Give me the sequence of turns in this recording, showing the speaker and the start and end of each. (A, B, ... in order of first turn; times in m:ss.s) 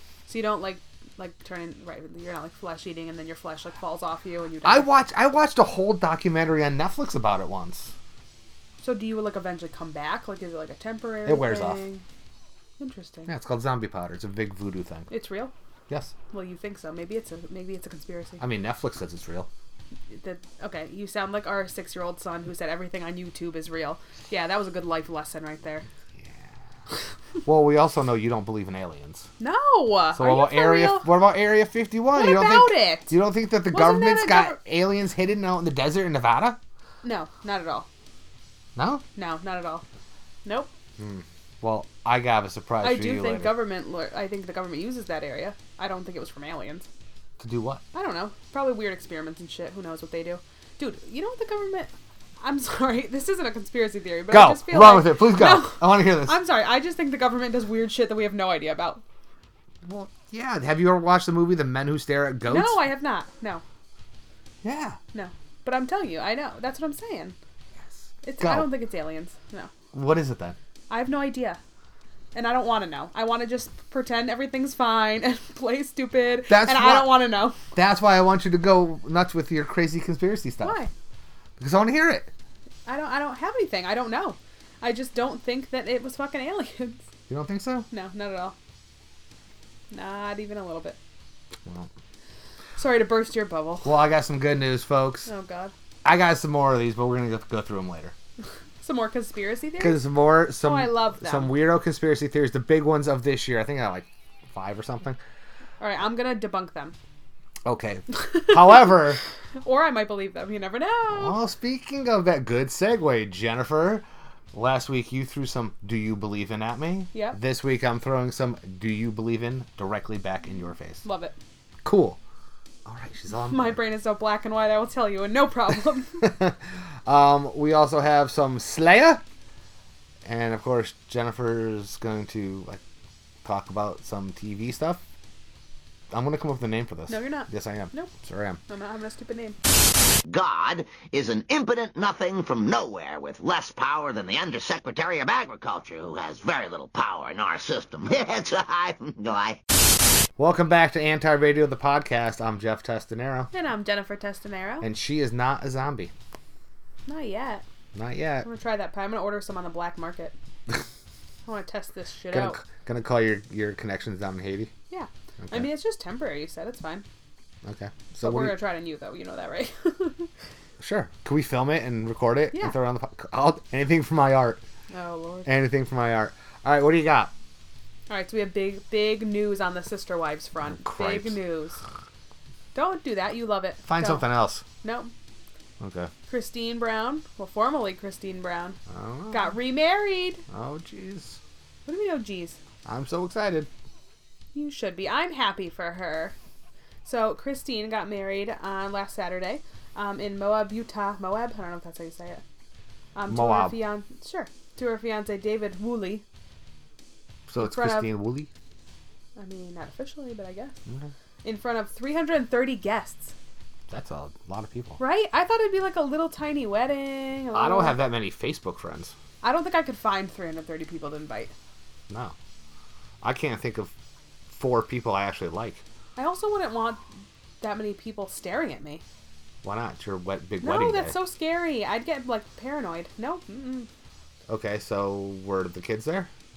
0:00.2-0:04.9 A
0:04.6-0:07.9 B
0:08.8-0:12.0 A
0:11.2-0:11.8 B
0:12.8-0:13.3 A
0:13.3-0:15.1 B
0:15.1-0:15.5 A
0:15.9-0:16.1 B
0:16.3-0:18.4 A
0:18.4-0:19.5 B
0:20.1-0:25.9 A
0:26.2-0:26.5 B
0:27.4-0:29.3 B
0:29.4-0:31.1 A
0:30.1-0:36.6 B
0:32.1-0:33.2 A
0:33.7-0:34.6 A
0:37.0-0:37.9 A
0:38.8-0:39.0 B
0:39.2-0:39.8 A
0:40.4-0:40.7 A
0:41.0-0:43.5 B
0:42.8-0:46.9 A
0:47.4-0:47.8 B
0:47.9-0:59.0 A
0:54.3-0:56.4 B
0:59.8-1:02.8 B
1:02.5-1:03.6 A
1:04.6-1:05.0 B
1:05.1-1:07.4 A
1:08.2-1:09.7 A
1:08.4-1:08.7 B
1:09.9-1:10.6 B
1:10.9-1:11.6 A
1:12.3-1:17.6 A
1:16.5-1:20.8 B
1:20.6-1:20.9 A
1:21.6-1:22.3 B
1:22.8-1:27.0 A
1:27.3-1:27.9 B
1:27.9-1:28.5 A
1:29.9-1:31.0 A
1:32.8-1:33.9 A
1:33.8-1:35.3 B
1:35.2-1:35.7 A
1:36.0-1:38.1 B
1:38.8-1:40.0 A
1:39.8-1:45.2 B
1:40.6-1:41.6 A
1:45.8-1:47.0 A
1:47.6-1:49.2 B
1:48.3-1:48.9 A
1:49.6-1:51.4 A
1:51.1-2:01.0 B
2:01.0-2:01.4 A
2:01.8-2:02.2 B
2:02.8-2:03.8 B
2:03.3-2:06.2 A
2:06.2-2:09.2 B
2:10.2-2:12.8 B
2:13.4-2:15.0 B
2:16.1-2:18.6 B
2:17.1-2:18.1 A
2:18.7-2:19.6 A
2:20.2-2:29.6 C
2:30.4-2:33.5 B
2:33.5-2:34.9 A
2:34.8-2:36.1 B
2:37.0-2:37.6 A
2:37.9-2:38.5 B
2:38.4-2:40.3 A
2:41.4-2:42.6 A
2:42.3-2:44.7 B
2:44.9-2:47.0 A
2:45.4-2:45.7 B
2:47.6-2:48.6 B
2:48.2-2:50.3 A
2:50.8-2:54.6 B
2:54.9-2:55.5 A
2:55.4-2:57.3 B
2:58.1-3:01.8 A
3:00.6-3:01.4 B
3:02.7-3:04.2 A
3:03.8-3:04.6 B
3:04.8-3:05.1 A
3:05.8-3:06.1 B
3:06.3-3:08.8 A
3:08.9-3:09.6 B
3:09.3-3:10.4 A
3:10.5-3:11.4 B
3:11.8-3:12.6 A
3:12.8-3:13.7 B
3:14.5-3:16.3 A
3:17.0-3:22.4 A
3:23.1-3:26.2 A
3:23.3-3:23.8 B
3:27.5-3:28.5 B
3:27.6-3:28.1 A
3:29.4-3:30.8 A
3:31.4-3:33.3 A
3:33.9-3:35.0 B
3:35.0-3:38.0 A
3:37.5-3:39.1 B
3:39.4-3:41.5 A
3:42.1-3:42.3 B
3:43.2-3:43.9 B
3:44.5-3:45.8 B
3:46.2-3:47.0 A
3:47.6-3:49.0 A
3:49.6-3:51.2 B
3:50.6-3:53.9 A
3:54.5-3:56.3 B